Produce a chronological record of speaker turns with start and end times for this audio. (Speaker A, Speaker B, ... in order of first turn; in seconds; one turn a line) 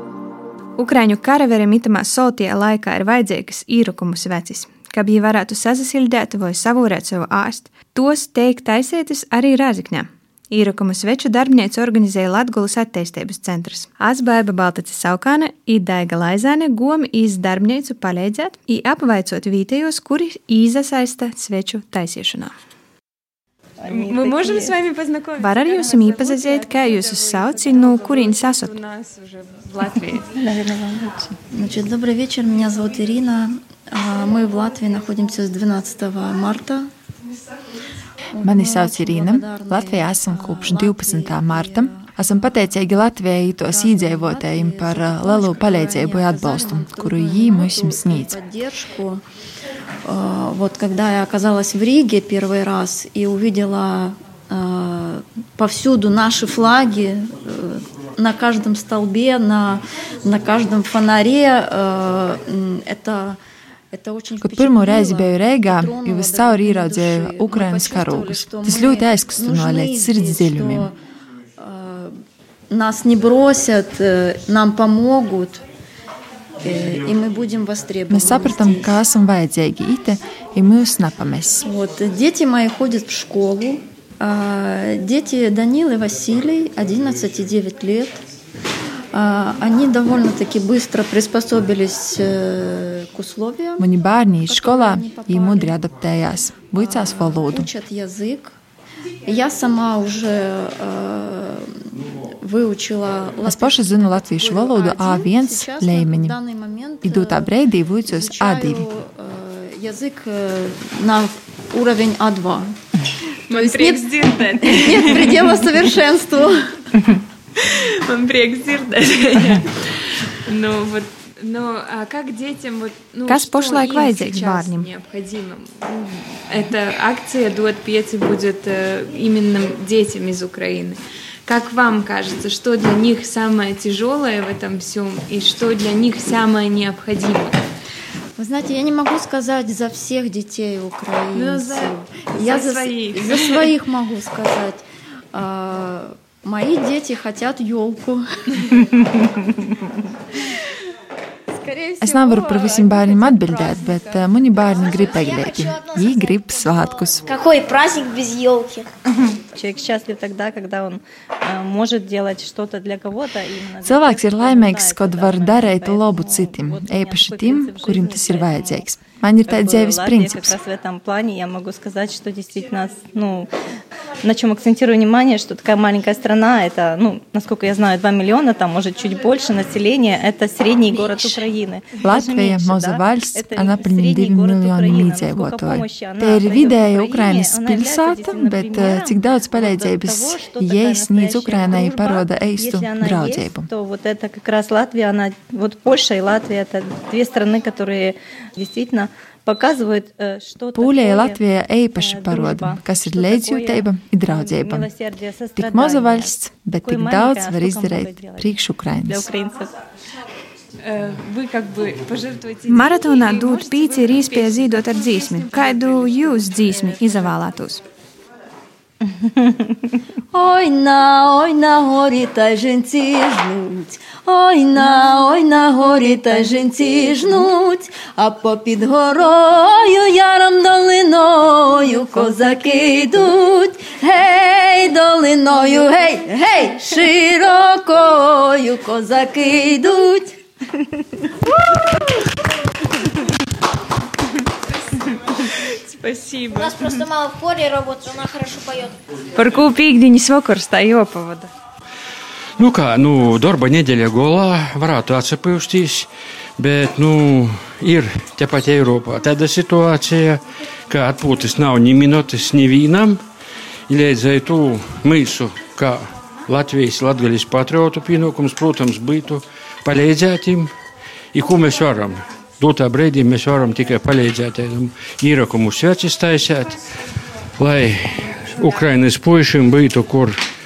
Speaker A: 0.8-22.6
Speaker B: 23.8-24.8
Speaker C: 23.9-30.4
Speaker A: 25.4-28.7
Speaker B: 29.9-31.3
Speaker D: 31.5-36.9
Speaker D: 38.4-42.1
Speaker E: 38.4-48.4
Speaker D: 43.6-49.2
Speaker D: 50.0-63.4
Speaker D: 63.9-71.0
Speaker E: 64.4-70.9
Speaker D: 71.6-72.2
Speaker D: 72.7-75.6
Speaker D: 76.6-79.0
Speaker E: 78.1-81.7
Speaker D: 81.6-88.2
Speaker D: 89.1-93.9
Speaker E: 93.8-97.7
Speaker D: 94.5-95.8
Speaker D: 96.8-98.5
Speaker D: 99.3-107.5
Speaker E: 103.5-106.4
Speaker E: 107.0-108.9
Speaker D: 108.0-112.8
Speaker C: 113.5-115.7
Speaker D: 113.5-114.0
Speaker D: 114.6-116.6
Speaker C: 117.6-137.6
Speaker A: 123.3-124.9
Speaker D: 138.4-148.2
Speaker C: 141.3-143.7
Speaker F: 151.6-152.7
Speaker E: 152.0-157.3
Speaker F: 154.7-158.9
Speaker B: 159.5-168.9
Speaker E: 163.8-170.6
Speaker B: 169.4-173.5
Speaker B: 174.2-201.4
Speaker E: 181.1-181.4
Speaker E: 182.0-193.7
Speaker E: 200.8-204.9
Speaker B: 201.9-209.7
Speaker E: 205.6-209.3
Speaker C: 210.8-217.3
Speaker A: 212.7-217.8
Speaker B: 219.2-219.8
Speaker D: 220.3-240.3
Speaker B: 226.2-227.4
Speaker B: 232.1-233.1
Speaker C: 245.7-246.8
Speaker F: 246.5-249.0
Speaker C: 249.4-249.8
Speaker A: 249.4-251.5
Speaker C: 250.6-250.8
Speaker G: 252.6-263.2
Speaker G: 263.9-270.7
Speaker G: 271.3-276.8
Speaker G: 277.6-280.4